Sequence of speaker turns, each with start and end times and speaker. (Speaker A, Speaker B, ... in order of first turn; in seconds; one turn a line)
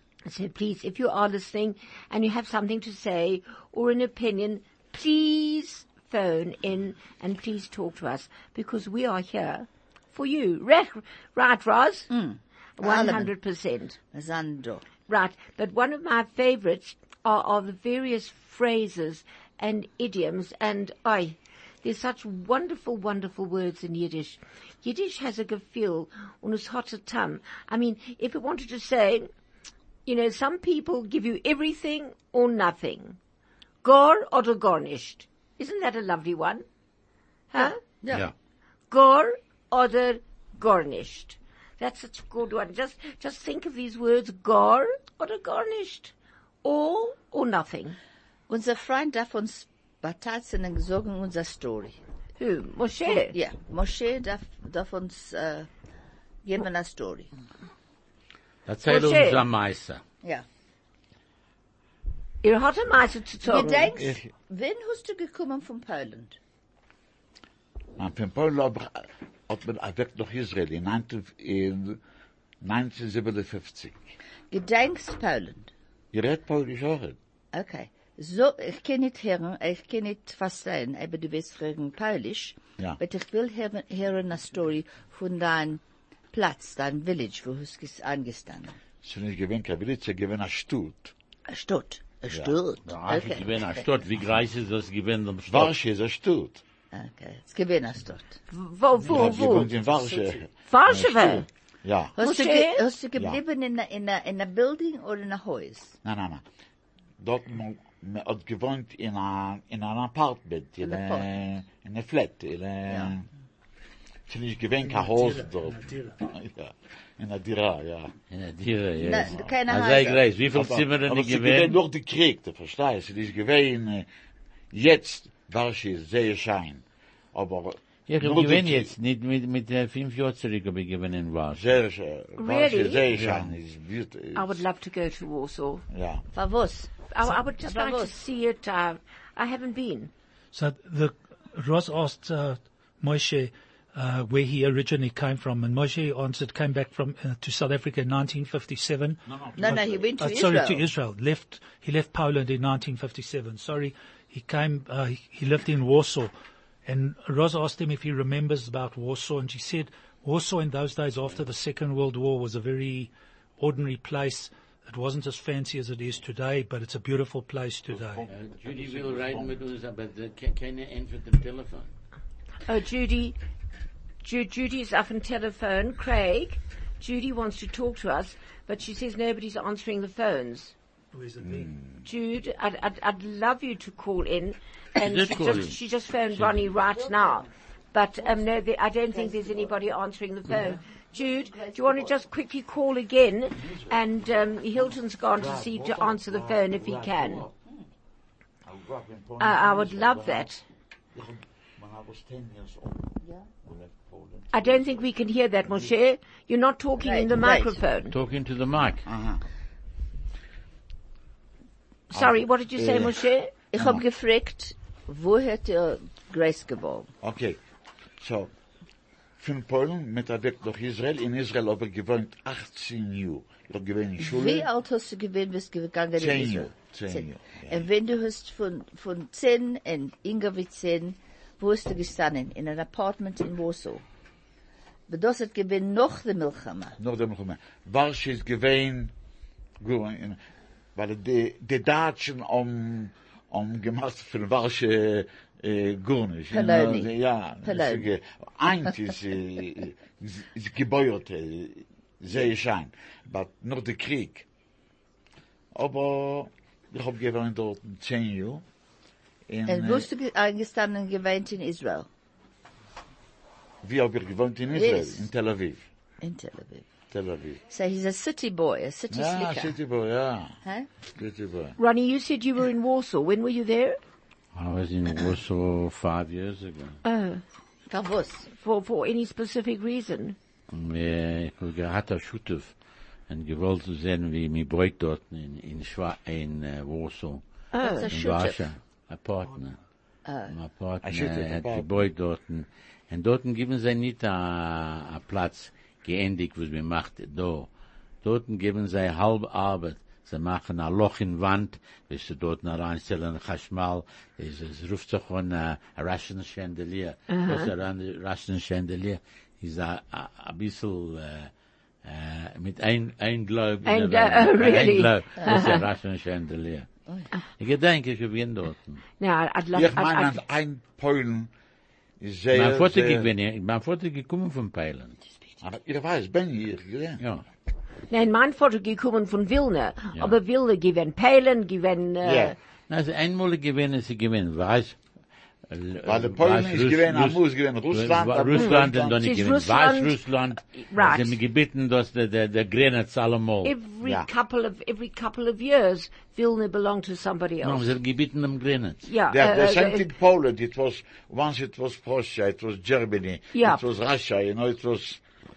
Speaker A: 0.3-12.1
Speaker B: 12.1-13.3
Speaker A: 12.8-14.0
Speaker B: 14.1-14.9
Speaker A: 15.1-29.3
Speaker A: 30.1-33.2
Speaker A: 33.8-36.6
Speaker A: 37.5-37.8
Speaker B: 37.6-38.3
Speaker A: 38.9-46.1
Speaker A: 46.6-48.0
Speaker B: 48.5-52.0
Speaker A: 52.4-53.4
Speaker B: 53.1-55.7
Speaker B: 56.4-57.3
Speaker C: 58.7-60.0
Speaker A: 58.9-59.4
Speaker A: 62.4-63.9
Speaker B: 63.4-66.4
Speaker D: 64.0-64.3
Speaker D: 68.0-72.0
Speaker D: 72.6-74.1
Speaker B: 74.5-75.7
Speaker D: 76.1-77.2
Speaker B: 77.5-85.8
Speaker B: 86.3-88.8
Speaker D: 89.0-91.1
Speaker B: 91.5-93.8
Speaker D: 92.3-92.5
Speaker C: 92.9-95.7
Speaker D: 95.5-96.6
Speaker B: 96.9-98.4
Speaker A: 98.5-99.7
Speaker D: 99.0-102.1
Speaker B: 99.1-99.5
Speaker A: 100.7-101.5
Speaker B: 102.2-106.0
Speaker A: 102.2-102.8
Speaker D: 106.0-106.4
Speaker D: 107.2-113.3
Speaker B: 110.8-111.3
Speaker B: 112.9-113.1
Speaker D: 114.3-118.1
Speaker E: 114.8-116.2
Speaker C: 118.3-121.8
Speaker B: 119.0-120.2
Speaker D: 120.5-124.1
Speaker D: 124.7-126.8
Speaker D: 127.3-128.9
Speaker C: 128.1-131.6
Speaker D: 131.6-134.6
Speaker A: 132.4-133.1
Speaker C: 133.1-133.5
Speaker A: 134.3-135.8
Speaker D: 135.9-136.3
Speaker B: 136.3-136.9
Speaker A: 137.1-140.1
Speaker B: 137.6-138.1
Speaker E: 140.5-156.3
Speaker D: 149.3-150.1
Speaker B: 149.6-150.8
Speaker E: 156.9-168.2
Speaker D: 167.9-169.6
Speaker C: 168.3-171.9
Speaker A: 172.7-173.4
Speaker A: 174.2-180.7
Speaker E: 181.1-181.7
Speaker D: 181.4-182.0
Speaker A: 182.0-197.4
Speaker C: 185.0-185.8
Speaker C: 186.3-186.7
Speaker B: 186.9-187.5
Speaker B: 188.2-188.5
Speaker B: 189.1-189.8
Speaker B: 191.1-192.2
Speaker D: 193.6-194.0
Speaker D: 194.8-197.6
Speaker D: 198.7-200.5
Speaker A: 199.4-200.6
Speaker D: 201.1-205.0
Speaker A: 204.5-208.2
Speaker B: 207.0-207.8
Speaker C: 208.1-209.1
Speaker D: 209.1-209.4
Speaker A: 212.1-213.5
Speaker D: 212.1-213.2
Speaker B: 213.7-217.1
Speaker D: 213.8-214.0
Speaker D: 217.2-217.6
Speaker D: 218.2-218.5
Speaker D: 219.4-224.7
Speaker B: 224.2-234.0
Speaker D: 226.2-227.9
Speaker B: 235.1-237.0
Speaker D: 237.0-239.1
Speaker D: 239.8-240.4
Speaker D: 241.0-254.4
Speaker B: 246.5-247.1
Speaker B: 247.6-248.1
Speaker D: 255.8-258.6
Speaker D: 259.5-260.1
Speaker B: 259.7-262.1
Speaker D: 263.8-265.9
Speaker B: 264.7-265.3
Speaker B: 266.2-266.9
Speaker D: 267.1-267.6
Speaker B: 267.7-269.8
Speaker D: 269.1-270.6
Speaker D: 271.1-271.8
Speaker A: 271.8-274.0
Speaker C: 274.5-277.0
Speaker A: 277.0-277.4
Speaker B: 277.9-278.5
Speaker A: 278.6-280.4
Speaker C: 280.7-282.7
Speaker C: 283.3-287.4
Speaker A: 287.7-288.1
Speaker B: 287.8-288.6
Speaker C: 288.1-289.8
Speaker B: 290.2-290.5
Speaker C: 290.5-297.7
Speaker D: 291.0-292.1
Speaker C: 298.2-311.5
Speaker A: 307.3-307.7
Speaker C: 312.0-316.9
Speaker A: 313.9-315.9
Speaker C: 317.5-319.0
Speaker A: 319.2-320.4
Speaker D: 319.8-321.5
Speaker D: 322.2-323.3
Speaker C: 322.5-325.2
Speaker D: 325.6-327.2
Speaker A: 328.1-332.6
Speaker D: 332.2-332.6
Speaker C: 332.9-335.0
Speaker C: 335.7-343.7
Speaker D: 336.1-339.2
Speaker A: 338.6-340.2
Speaker A: 340.8-341.4
Speaker A: 343.6-347.9
Speaker D: 344.0-344.3
Speaker C: 347.6-349.1
Speaker A: 349.1-350.1
Speaker D: 349.3-355.2
Speaker A: 353.5-353.8